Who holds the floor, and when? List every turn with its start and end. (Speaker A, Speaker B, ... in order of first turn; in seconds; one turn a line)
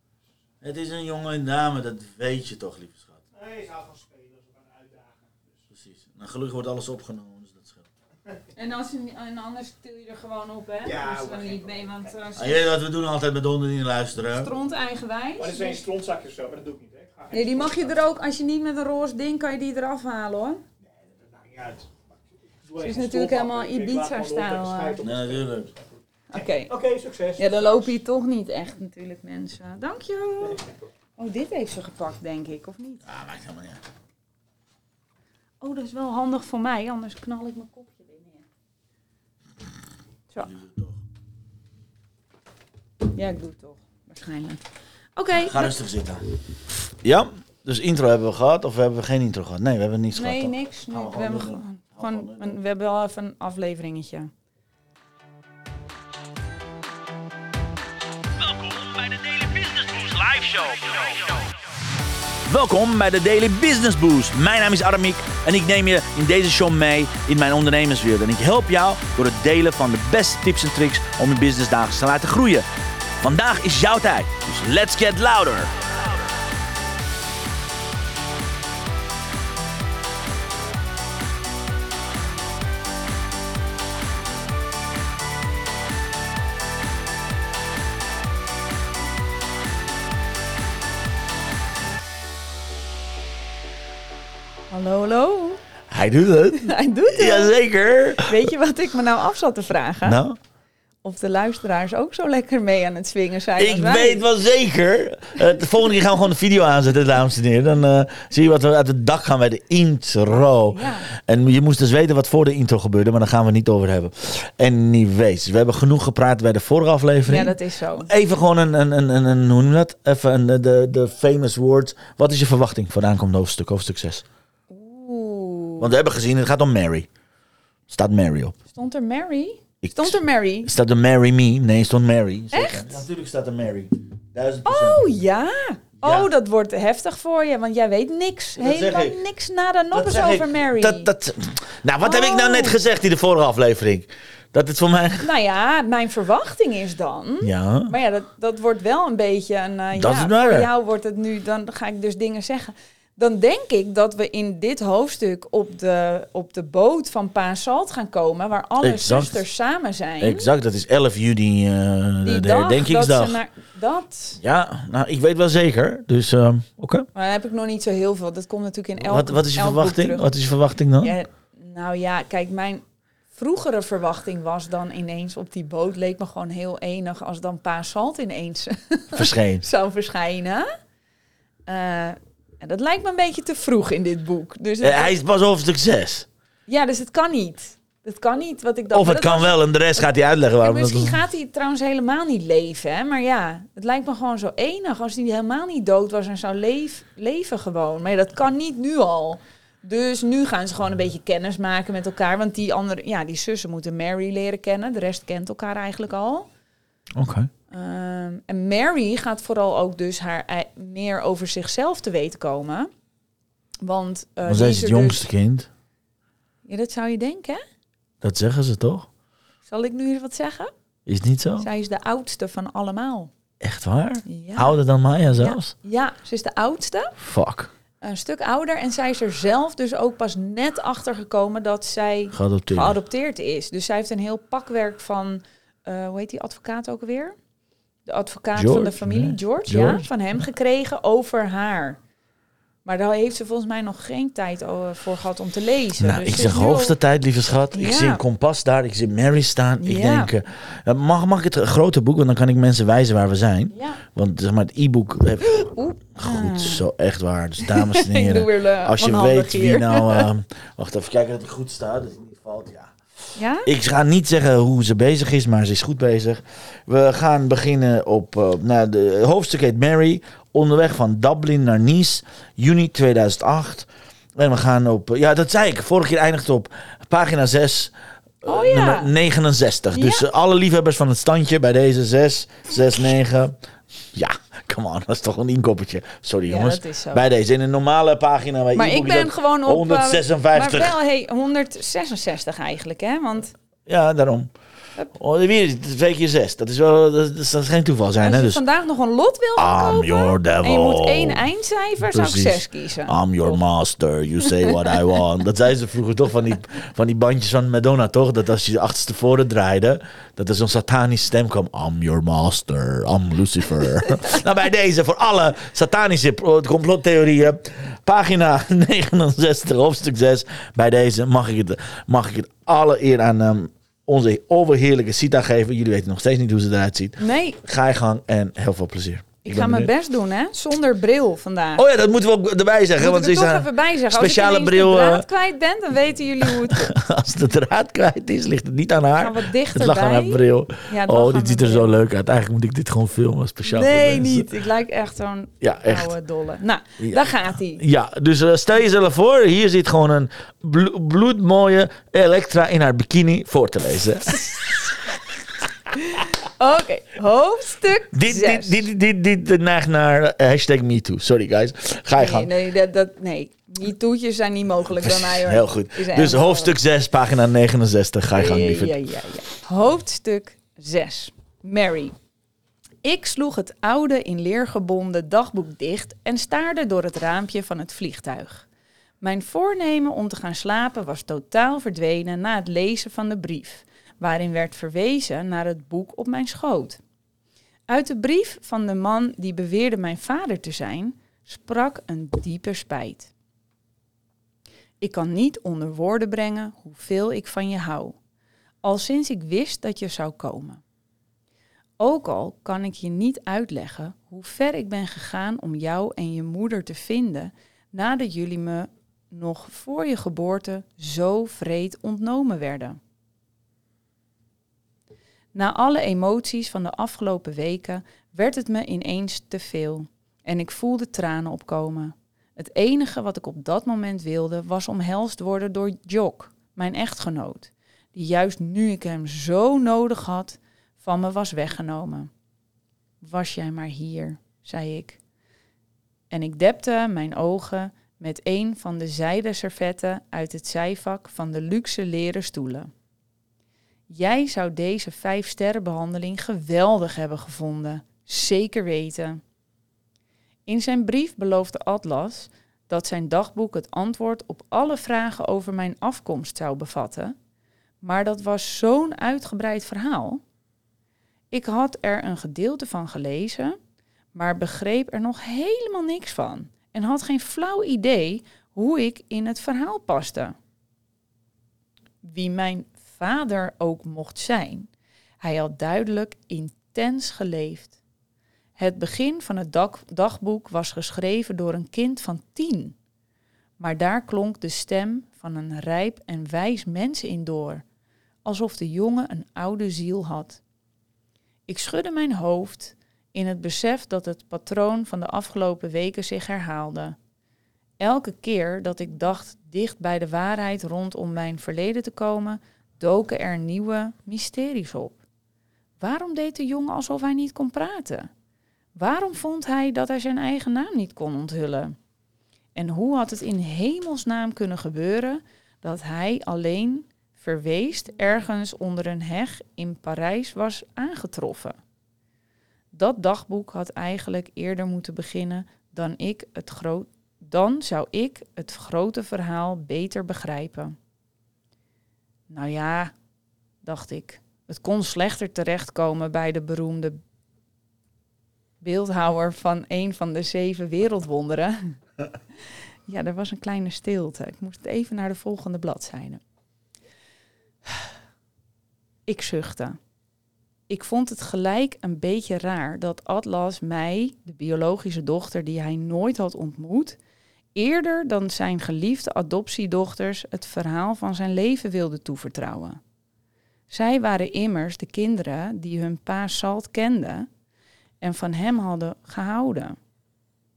Speaker A: 0.6-3.2
Speaker B: 3.3-5.5
Speaker A: 5.7-7.9
Speaker C: 8.5-12.7
Speaker B: 10.8-12.1
Speaker A: 12.4-14.5
Speaker C: 14.3-15.8
Speaker B: 15.4-17.9
Speaker C: 17.3-20.6
Speaker B: 21.2-22.0
Speaker B: 22.6-25.7
Speaker C: 22.8-25.0
Speaker A: 25.0-25.7
Speaker C: 26.3-26.7
Speaker B: 26.4-28.0
Speaker C: 27.4-30.6
Speaker C: 31.2-33.1
Speaker A: 33.0-33.8
Speaker C: 35.6-38.5
Speaker A: 40.5-41.0
Speaker C: 43.1-44.6
Speaker C: 45.2-45.8
Speaker A: 45.4-46.2
Speaker A: 47.0-52.6
Speaker C: 50.1-54.3
Speaker A: 58.4-61.5
Speaker A: 62.5-72.7
Speaker A: 73.2-75.7
Speaker C: 94.7-95.6
Speaker A: 95.9-98.5
Speaker C: 96.6-97.5
Speaker C: 98.2-100.2
Speaker A: 100.0-100.4
Speaker C: 101.0-104.3
Speaker A: 103.6-124.2
Speaker C: 110.7-111.1
Speaker C: 117.2-118.1
Speaker C: 124.7-125.9
Speaker A: 125.8-127.1
Speaker A: 127.9-128.6
Speaker C: 128.7-130.7
Speaker A: 129.8-135.1
Speaker C: 132.5-133.0
Speaker C: 134.7-141.1
Speaker A: 136.0-136.3
Speaker A: 138.6-139.2
Speaker A: 139.9-145.3
Speaker C: 142.0-142.8
Speaker C: 145.2-160.5
Speaker A: 147.4-147.9
Speaker A: 149.9-150.7
Speaker A: 158.8-159.4
Speaker A: 160.2-163.4
Speaker C: 162.2-164.4
Speaker A: 164.4-167.1
Speaker C: 167.2-170.3
Speaker A: 169.0-171.2
Speaker C: 171.0-180.7
Speaker A: 179.2-179.7
Speaker C: 181.7-185.2
Speaker A: 184.8-186.3
Speaker C: 186.7-190.0
Speaker A: 188.9-191.2
Speaker C: 190.6-206.5
Speaker A: 207.2-207.5
Speaker C: 207.7-212.9
Speaker C: 213.8-215.2
Speaker A: 214.5-215.7
Speaker C: 216.7-217.6
Speaker A: 218.2-219.1
Speaker C: 219.7-220.7
Speaker A: 221.1-221.7
Speaker C: 221.6-223.3
Speaker A: 223.6-225.7
Speaker C: 224.3-224.8
Speaker C: 225.3-227.2
Speaker A: 227.2-227.7
Speaker C: 228.0-237.3
Speaker A: 232.3-233.0
Speaker C: 238.1-242.0
Speaker A: 238.6-240.1
Speaker C: 242.8-247.0
Speaker A: 246.0-262.9
Speaker C: 247.7-248.2
Speaker C: 249.8-250.3
Speaker C: 253.7-254.0
Speaker C: 255.5-256.9
Speaker C: 257.6-260.3
Speaker C: 263.4-263.7
Speaker A: 263.6-283.6
Speaker C: 278.4-279.1
Speaker C: 279.9-280.2
Speaker A: 284.1-291.0
Speaker C: 286.5-287.2
Speaker C: 288.7-293.5
Speaker A: 293.9-294.5
Speaker A: 295.1-298.6
Speaker C: 298.2-303.6
Speaker A: 299.6-301.5
Speaker A: 302.0-329.9
Speaker C: 304.4-305.0
Speaker C: 327.2-327.6
Speaker C: 329.4-331.9
Speaker A: 331.8-335.3
Speaker C: 333.0-337.0
Speaker A: 336.5-344.5
Speaker C: 339.2-341.9
Speaker C: 343.6-347.8
Speaker A: 345.6-346.1
Speaker A: 347.0-354.5
Speaker C: 354.3-354.7
Speaker C: 355.9-358.9
Speaker A: 358.1-362.5
Speaker C: 362.2-366.8
Speaker A: 365.0-369.0
Speaker C: 368.4-372.1
Speaker C: 373.0-378.7
Speaker C: 379.2-387.0
Speaker C: 387.9-393.3
Speaker C: 395.0-398.2
Speaker C: 398.8-400.8
Speaker C: 402.0-413.0
Speaker C: 415.5-432.3
Speaker C: 433.2-435.2
Speaker C: 436.3-442.9
Speaker C: 444.1-449.4
Speaker C: 450.7-457.4
Speaker C: 458.0-460.4
Speaker C: 461.5-463.8
Speaker C: 464.3-470.6
Speaker C: 472.2-474.9
Speaker C: 475.4-478.0
Speaker C: 478.8-483.0
Speaker C: 483.8-487.8
Speaker C: 488.4-490.6
Speaker C: 491.7-497.2
Speaker C: 498.0-505.2
Speaker C: 506.0-508.3
Speaker C: 509.0-511.9
Speaker C: 512.8-521.8
Speaker C: 522.9-531.0
Speaker C: 532.5-533.1
Speaker C: 533.8-537.2
Speaker C: 538.8-541.8
Speaker C: 543.1-546.4
Speaker C: 549.3-550.0
Speaker C: 550.9-557.2
Speaker C: 557.8-563.0
Speaker C: 563.9-567.5
Speaker C: 568.2-570.0